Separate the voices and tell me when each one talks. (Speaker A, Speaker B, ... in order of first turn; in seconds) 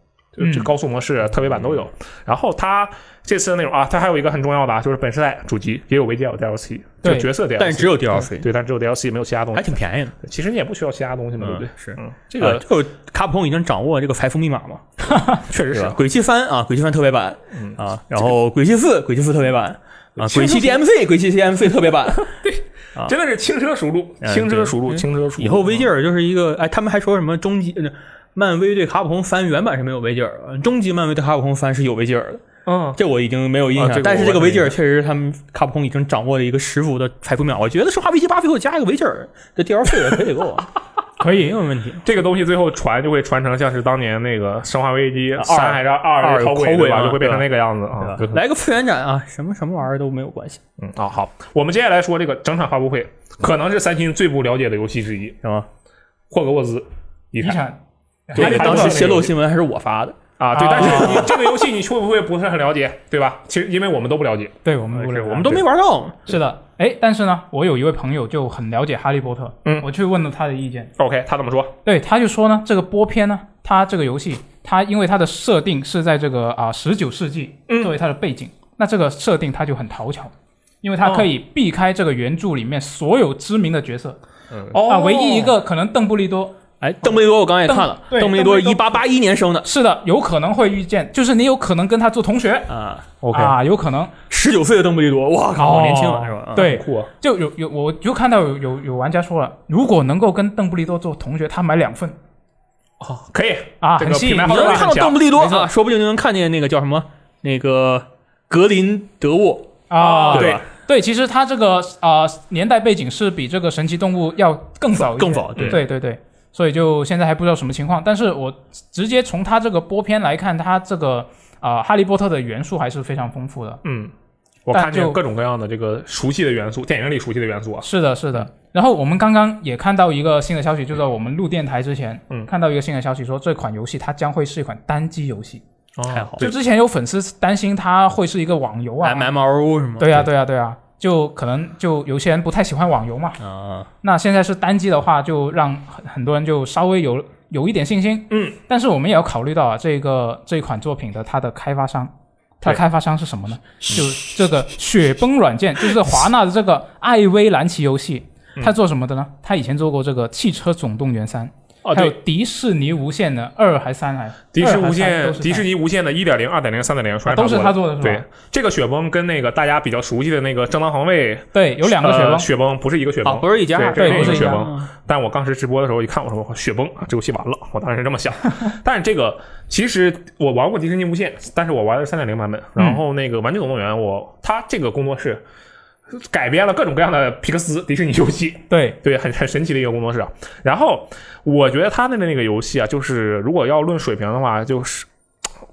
Speaker A: 0.3-12.7, 15.3-16.0, 17.5-18.3, 20.2-20.8, 22.3-25.9, 32.7-33.0, 33.7-34.8, 42.0-48.4, 50.8-55.4, 56.3-57.6, 58.3-59.4, 60.4-65.7, 71.0-71.8, 77.7-78.0, 81.0-81.3, 84.5-85.6, 93.2-93.6, 96.5-97.1, 103.0-105.6, 110.0-110.6, 115.5-115.8, 123.8-124.1, 124.7-127.9, 136.0-136.6, 148.3-148.6, 161.8-162.2, 164.5-185.4, 186.1-195.1
Speaker B: 0.4-0.7, 7.0-7.3, 41.2-41.5, 57.4-59.1, 60.5-61.3, 64.6-65.6, 66.3-70.9, 71.8-80.3, 80.8-84.2, 84.8-86.6, 87.7-88.9, 89.6-92.7, 93.3-94.1, 95.6-102.2, 103.8-105.7, 109.9-123.8, 124.7-125.2, 127.8-135.6, 136.4-139.3, 140.0-143.4, 144.0-165.7, 167.3-168.2, 171.5-172.5, 173.9-174.7, 188.7-189.0
Speaker C: 7.6-8.5, 9.5-10.1, 11.4-15.1, 15.7-22.3, 24.2-32.4, 33.0-42.1, 45.4-47.5, 48.0-50.6, 55.4-55.7, 58.3-60.2, 60.7-61.4, 65.2-66.2, 86.8-89.7, 92.7-93.1, 94.3-96.7, 104.4-110.6, 115.0-115.8, 136.1-136.5, 139.0-140.3, 143.4-143.9, 173.2-174.9